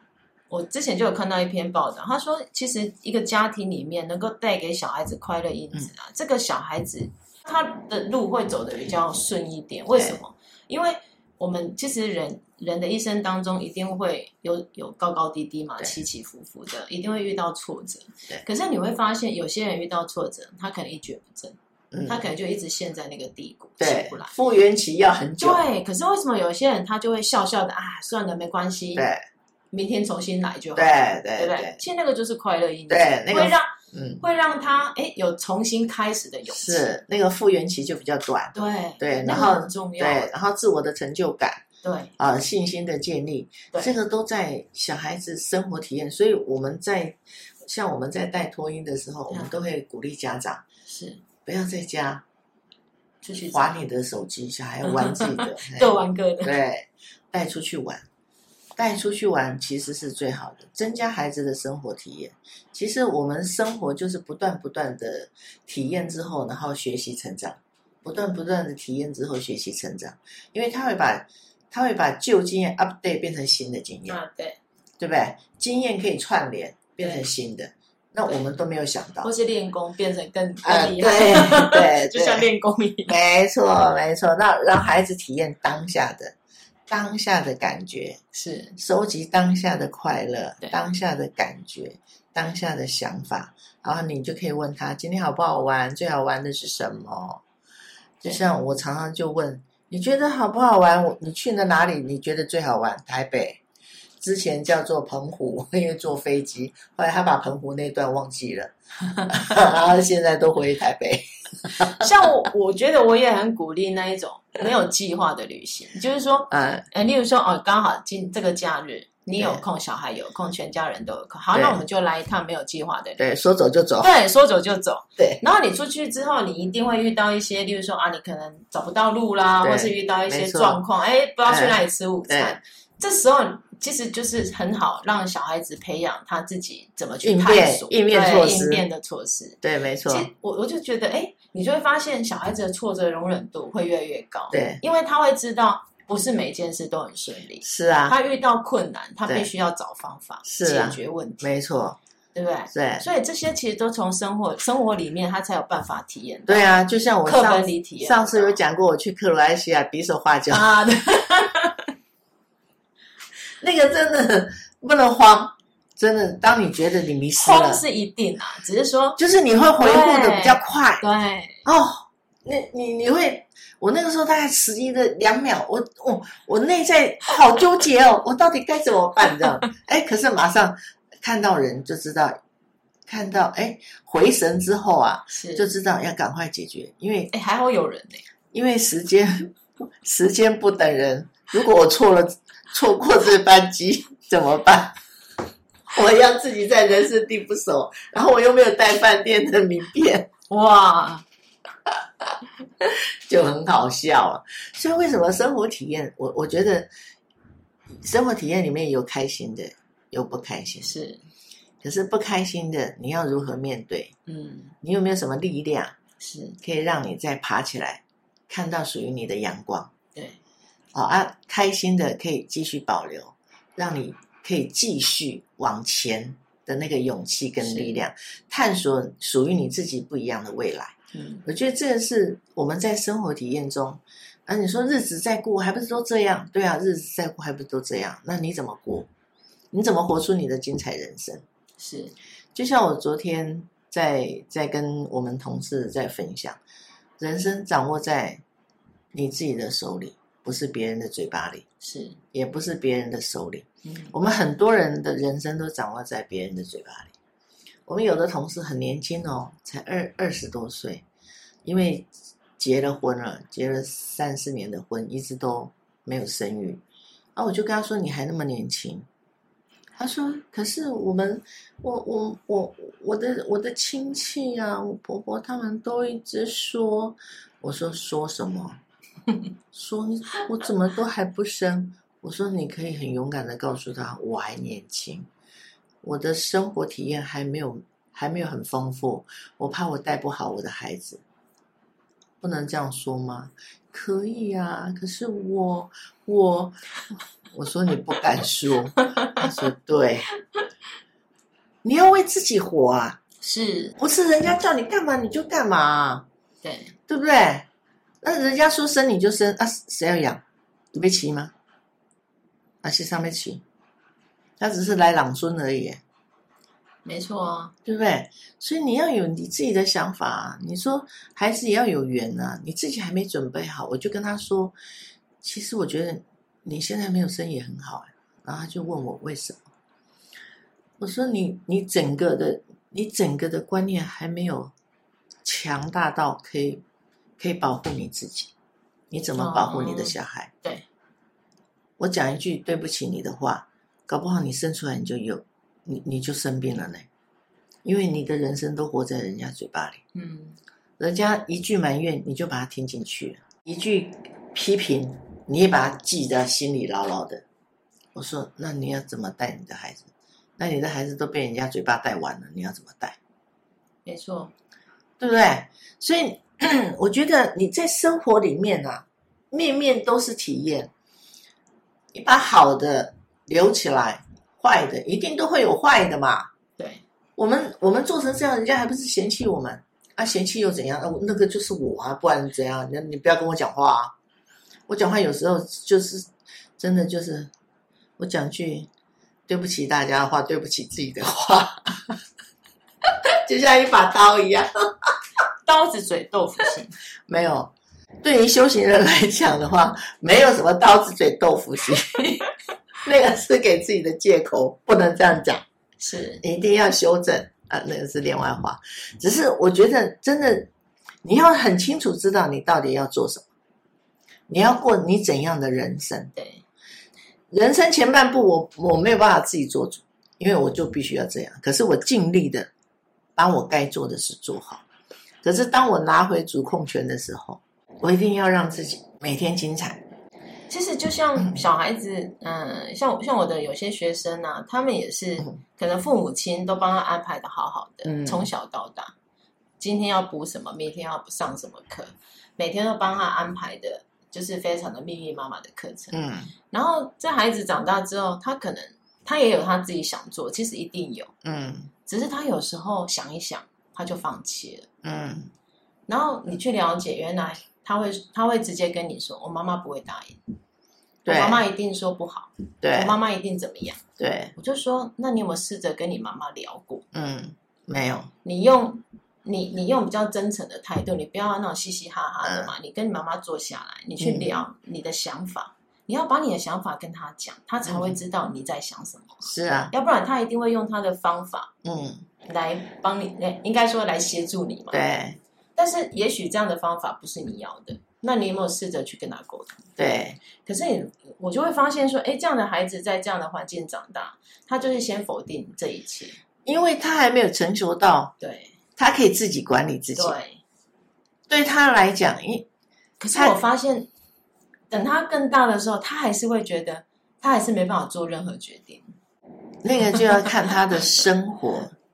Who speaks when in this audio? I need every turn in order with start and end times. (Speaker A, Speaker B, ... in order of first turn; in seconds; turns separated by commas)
Speaker A: 0.5-24.4, Speaker B: 9.9-10.2, Speaker B: 21.9-22.3, Speaker B: 23.8-25.6, Speaker A: 25.4-29.1, Speaker B: 28.9-29.2, Speaker A: 29.7-36.9, Speaker B: 30.8-31.8, Speaker B: 32.9-34.2, Speaker B: 36.5-41.6, Speaker A: 38.5-40.3, Speaker A: 41.8-42.1, Speaker B: 42.2-50.6, Speaker A: 50.9-51.2, Speaker B: 51.5-52.2, Speaker A: 53.2-53.8, Speaker B: 53.5-58.0, Speaker A: 54.9-56.6, Speaker B: 58.8-74.2, Speaker A: 74.1-74.6, Speaker B: 75.0-79.3, Speaker A: 77.0-77.3, Speaker A: 79.2-83.2, Speaker B: 80.6-82.5, Speaker B: 83.1-86.3, Speaker B: 86.9-88.2, Speaker A: 88.3-88.8, Speaker B: 88.8-97.4, Speaker B: 98.2-103.6, Speaker B: 104.2-108.7, Speaker B: 109.3-112.1, Speaker A: 111.7-123.2, Speaker B: 116.5-116.9, Speaker B: 119.4-119.6, Speaker B: 121.5-121.8, Speaker B: 123.2-124.1, Speaker A: 124.0-151.5, Speaker B: 125.2-125.4, Speaker B: 129.6-130.8, Speaker B: 131.5-132.6, Speaker B: 137.2-138.8, Speaker B: 139.6-140.3, Speaker B: 144.5-144.8, Speaker B: 147.6-148.2, Speaker B: 150.4-152.0, Speaker A: 152.3-158.6, Speaker B: 152.7-153.1, Speaker B: 156.5-160.7, Speaker A: 160.5-161.9, Speaker B: 163.6-167.8, Speaker A: 167.4-169.2, Speaker B: 169.2-171.0, Speaker A: 169.8-171.6, Speaker B: 171.7-182.4, Speaker B: 183.1-187.3, Speaker A: 185.3-185.7, Speaker A: 187.3-188.2, Speaker B: 188.5-195.0, Speaker B: 195.9-200.3, Speaker A: 200.5-201.2, Speaker B: 203.3-206.9, Speaker B: 208.0-210.9, Speaker A: 210.8-211.2, Speaker B: 211.8-214.1, Speaker A: 214.3-214.7, Speaker B: 214.8-215.9, Speaker A: 216.2-216.6, Speaker B: 216.6-219.9, Speaker B: 220.9-239.1, Speaker A: 227.6-228.0, Speaker A: 231.1-231.4, Speaker B: 239.7-241.4, Speaker A: 241.8-242.1, Speaker B: 242.6-246.6, Speaker B: 247.2-248.4, Speaker B: 249.1-251.7, Speaker A: 251.8-252.2, Speaker B: 252.3-257.1, Speaker A: 253.8-254.1, Speaker B: 257.9-261.1, Speaker B: 261.6-266.8, Speaker B: 267.4-269.1, Speaker B: 270.0-278.8, Speaker B: 279.7-285.3, Speaker B: 286.0-291.2, Speaker B: 292.4-300.3, Speaker A: 299.0-299.5, Speaker B: 301.8-303.2, Speaker A: 303.4-304.0, Speaker B: 304.0-306.3, Speaker A: 306.6-306.9, Speaker B: 307.1-307.7, Speaker B: 308.2-310.4, Speaker B: 310.9-311.5, Speaker B: 312.8-313.6, Speaker B: 314.6-316.0, Speaker A: 317.1-317.7, Speaker B: 317.9-324.8, Speaker B: 325.4-329.6, Speaker B: 331.0-334.7, Speaker B: 335.4-336.8, Speaker B: 337.4-338.5, Speaker B: 339.1-340.5, Speaker A: 339.4-340.9, Speaker B: 342.0-347.1, Speaker B: 347.8-350.0, Speaker A: 350.1-350.6, Speaker B: 351.0-357.4, Speaker B: 358.1-360.1, Speaker B: 360.6-363.2, Speaker A: 364.1-364.5, Speaker B: 365.2-370.9, Speaker B: 372.1-376.5, Speaker A: 376.8-377.0, Speaker B: 377.4-384.1, Speaker B: 384.9-387.5, Speaker B: 388.2-388.9, Speaker B: 389.5-392.2, Speaker B: 393.3-395.1, Speaker A: 395.6-396.9, Speaker B: 397.3-402.4, Speaker B: 403.0-405.6, Speaker A: 406.0-406.4, Speaker B: 406.4-410.7, Speaker B: 411.2-413.4, Speaker B: 414.5-416.3, Speaker A: 416.4-416.6, Speaker B: 417.5-422.7, Speaker B: 423.4-424.8, Speaker B: 425.4-430.0, Speaker A: 430.7-439.1, Speaker B: 431.4-431.6, Speaker B: 438.0-438.5, Speaker A: 439.8-446.2, Speaker B: 446.1-446.5, Speaker A: 446.7-451.3, Speaker B: 451.4-451.9, Speaker A: 452.1-454.9, Speaker B: 455.0-455.5, Speaker A: 456.1-460.4, Speaker B: 461.2-461.6, Speaker A: 461.3-464.0, Speaker B: 462.8-463.2, Speaker B: 464.2-464.5, Speaker A: 464.6-467.1, Speaker B: 467.1-468.3, Speaker A: 468.4-481.7, Speaker B: 472.4-472.7, Speaker B: 474.2-474.6, Speaker B: 477.9-478.2, Speaker B: 479.4-479.9, Speaker B: 481.8-482.3, Speaker A: 482.4-485.0, Speaker B: 484.9-485.4, Speaker A: 485.8-489.9, Speaker B: 490.0-490.4, Speaker A: 490.6-496.4, Speaker B: 496.6-498.4, Speaker A: 498.4-498.8, Speaker B: 499.0-500.4, Speaker A: 500.2-500.6, Speaker B: 501.5-502.7, Speaker A: 503.2-504.1, Speaker A: 504.9-509.1, Speaker B: 509.8-511.9, Speaker A: 510.1-510.5